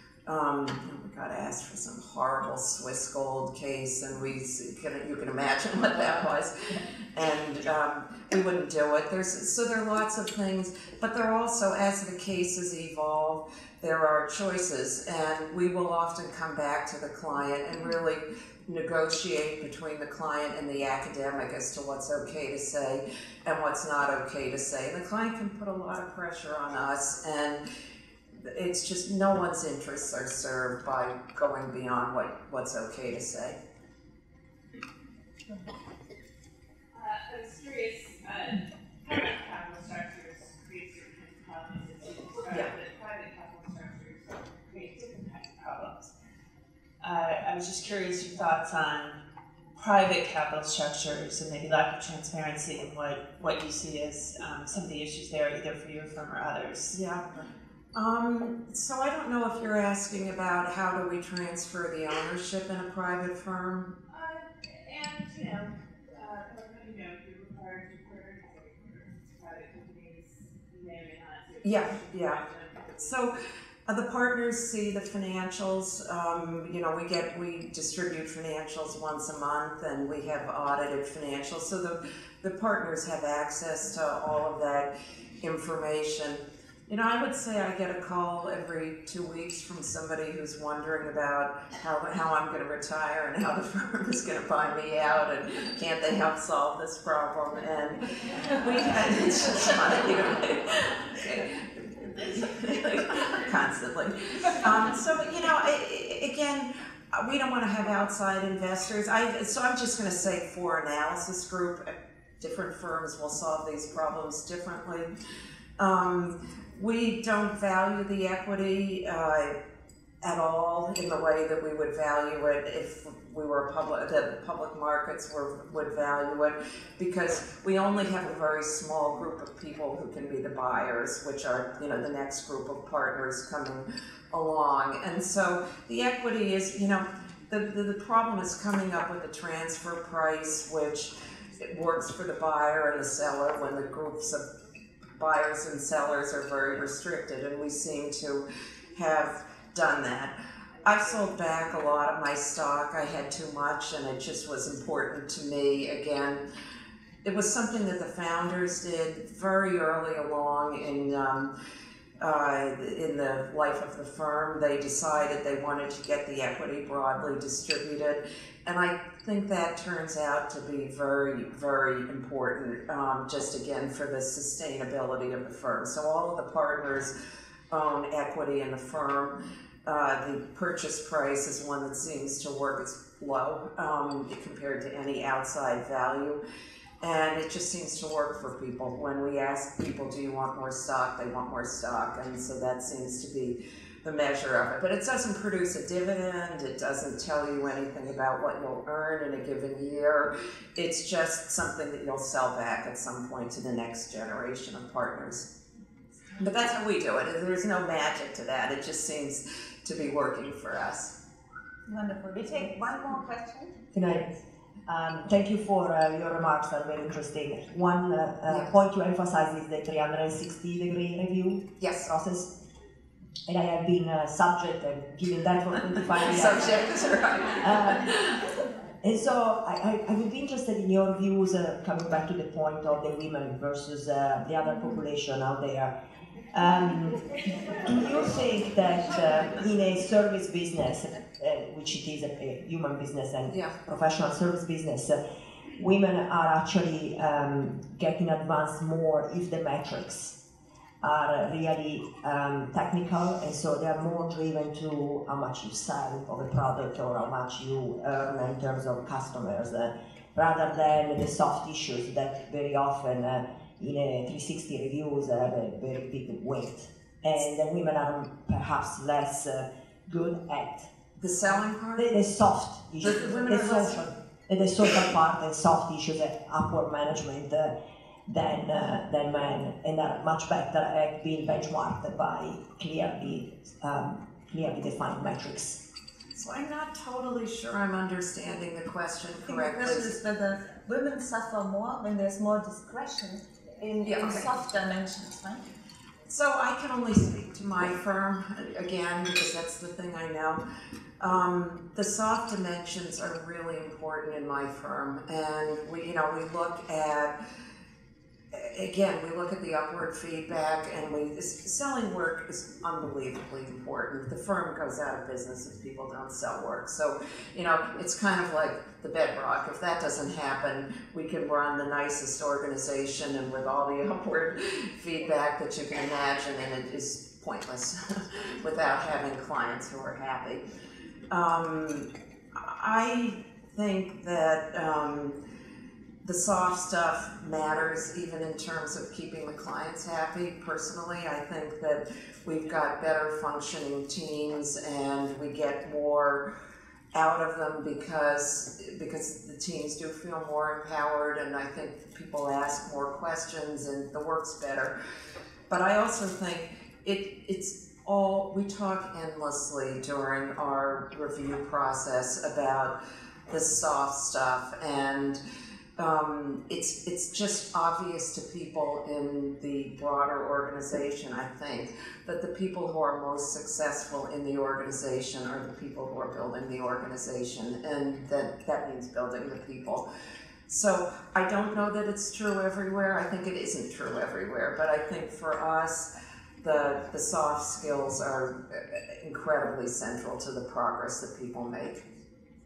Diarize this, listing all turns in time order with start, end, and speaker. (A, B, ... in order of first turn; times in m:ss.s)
0:00.3-0:27.6 A
0:28.4-0:33.6 A
0:36.9-0:46.1 B
0:47.0-0:49.2 B
0:49.8-0:57.0 B
0:56.9-1:04.0 A
1:04.1-1:13.3 B
1:11.6-1:12.4 A
1:13.0-1:13.4 A
1:13.9-1:55.1 A
1:55.8-1:59.6 A
2:00.2-2:24.4 A
2:25.2-2:36.4 A
2:37.2-2:41.5 A
2:42.2-2:57.1 A
2:57.7-3:06.4 A
3:07.0-3:25.5 A
3:26.4-3:31.2 A
3:31.9-3:33.7 C
3:33.9-3:34.3 D
3:34.9-3:42.5 D
3:41.8-3:42.1 A
3:43.5-3:46.9 D
3:46.2-3:48.4 A
3:47.6-3:48.1 D
3:49.0-3:55.9 D
3:56.5-4:05.2 D
4:05.8-4:10.4 D
4:11.0-4:30.9 D
4:31.2-4:32.2 A
4:32.0-4:37.7 D
4:33.0-4:34.0 A
4:38.3-4:45.8 D
4:46.4-4:50.2 A
4:49.5-4:55.6 C
4:54.1-4:54.5 A
4:56.3-5:00.6 A
5:01.2-5:07.4 A
5:08.5-5:30.6 A
5:31.3-5:35.4 A
5:36.2-5:46.5 A
5:47.1-5:54.9 A
5:55.7-6:03.0 A
6:03.5-6:05.4 A
6:06.0-6:20.1 A
6:20.7-6:26.1 A
6:26.6-6:32.1 A